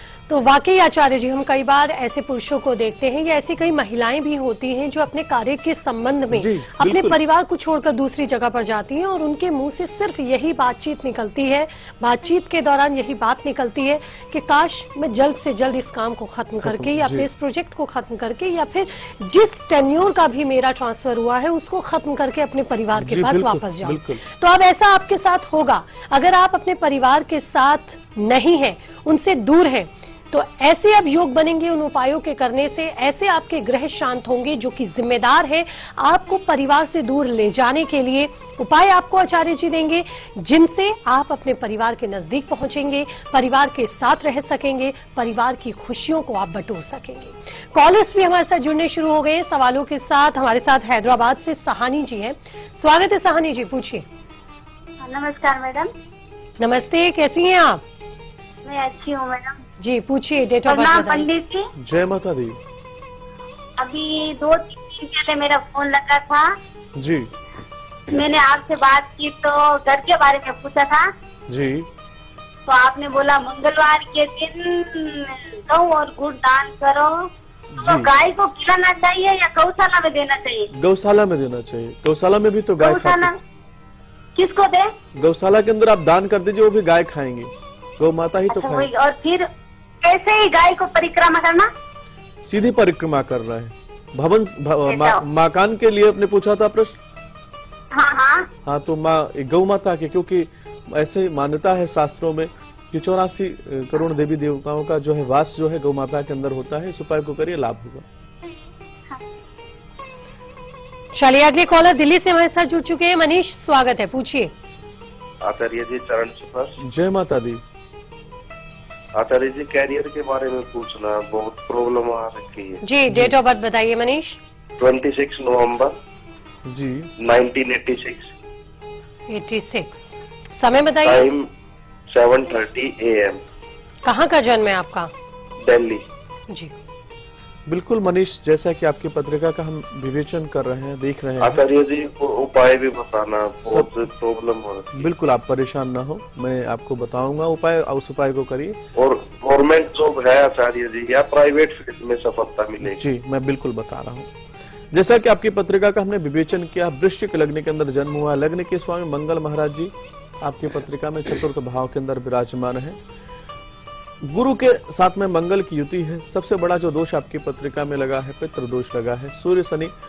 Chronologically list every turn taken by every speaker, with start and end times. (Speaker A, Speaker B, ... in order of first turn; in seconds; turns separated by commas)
Speaker A: 0.3-54.0, Speaker B: 6.3-7.2, Speaker B: 16.6-17.3, Speaker B: 22.9-24.2, Speaker C: 55.0-55.9, Speaker A: 56.6-57.8, Speaker C: 58.6-59.6, Speaker A: 59.8-61.3, Speaker C: 60.6-61.7, Speaker B: 61.8-62.6, Speaker C: 63.8-66.5, Speaker B: 67.0-67.3, Speaker C: 68.1-71.0, Speaker B: 71.5-71.9, Speaker C: 72.7-77.2, Speaker B: 77.7-78.1, Speaker C: 77.8-80.7, Speaker B: 80.7-83.3, Speaker C: 82.8-83.4, Speaker C: 84.3-84.9, Speaker B: 85.2-88.9, Speaker C: 88.5-89.5, Speaker C: 90.0-91.7, Speaker B: 92.4-97.0, Speaker C: 94.9-95.2, Speaker C: 97.9-98.5, Speaker B: 98.6-108.0, Speaker A: 111.1-114.5, Speaker D: 115.4-116.8, Speaker B: 116.8-117.6, Speaker D: 119.2-122.8, Speaker A: 122.8-124.4, Speaker D: 124.8-125.9, Speaker B: 126.7-127.1, Speaker D: 127.2-128.3, Speaker A: 129.3-131.3, Speaker D: 131.0-131.4, Speaker D: 132.1-133.4, Speaker A: 134.0-135.1, Speaker D: 135.6-136.0, Speaker B: 137.7-141.6, Speaker D: 141.4-145.1, Speaker B: 144.9-148.8, Speaker D: 148.9-153.0, Speaker B: 152.8-154.3, Speaker B: 154.9-163.0, Speaker B: 164.2-169.9